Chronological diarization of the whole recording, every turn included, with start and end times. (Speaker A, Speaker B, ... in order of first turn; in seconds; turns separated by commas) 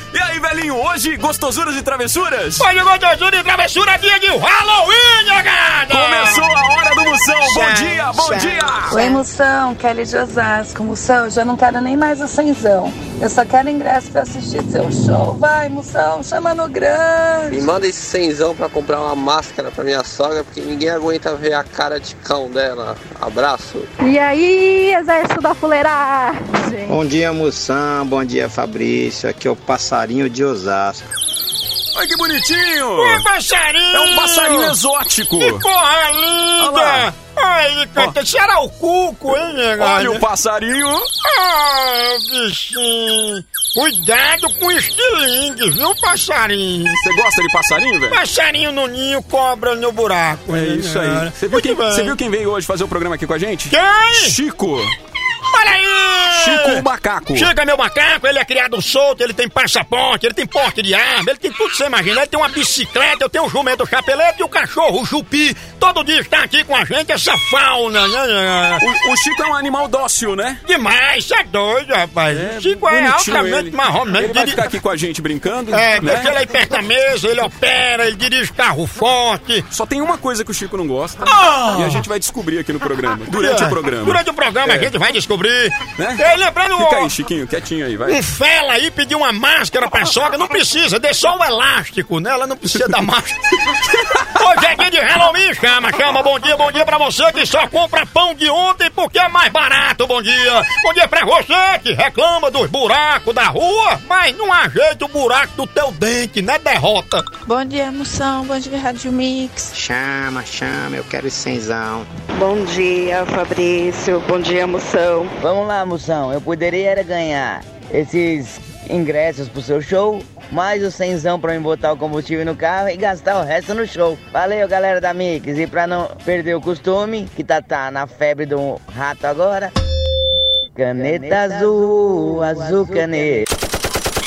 Speaker A: 0.1-2.6, Speaker B: 2.6-6.4, Speaker A: 5.9-9.0, Speaker C: 8.2-8.6, Speaker D: 8.9-17.7, Speaker E: 17.5-23.9, Speaker C: 24.0-26.9, Speaker F: 26.9-31.1, Speaker A: 31.9-33.2, Speaker B: 33.0-34.7, Speaker A: 33.9-35.6, Speaker B: 35.4-40.2, Speaker A: 36.6-37.1, Speaker A: 39.8-41.1, Speaker B: 41.2-47.0, Speaker A: 47.0-48.2, Speaker B: 48.1-52.1, Speaker A: 50.5-54.9, Speaker B: 53.7-54.4, Speaker B: 55.5-68.8, Speaker A: 56.3-57.5, Speaker A: 68.8-70.6, Speaker B: 70.7-74.6, Speaker A: 72.3-76.3, Speaker B: 75.7-79.7, Speaker A: 79.7-84.9, Speaker B: 81.2-82.0, Speaker B: 83.3-87.1, Speaker A: 86.8-88.2, Speaker B: 88.1-93.4, Speaker A: 93.9-94.4, Speaker B: 94.3-107.2, Speaker G: 107.5-109.6, Speaker F: 109.7-112.1, Speaker H: 112.3-115.3, Speaker I: 115.4-129.7, Speaker I: 130.8-133.4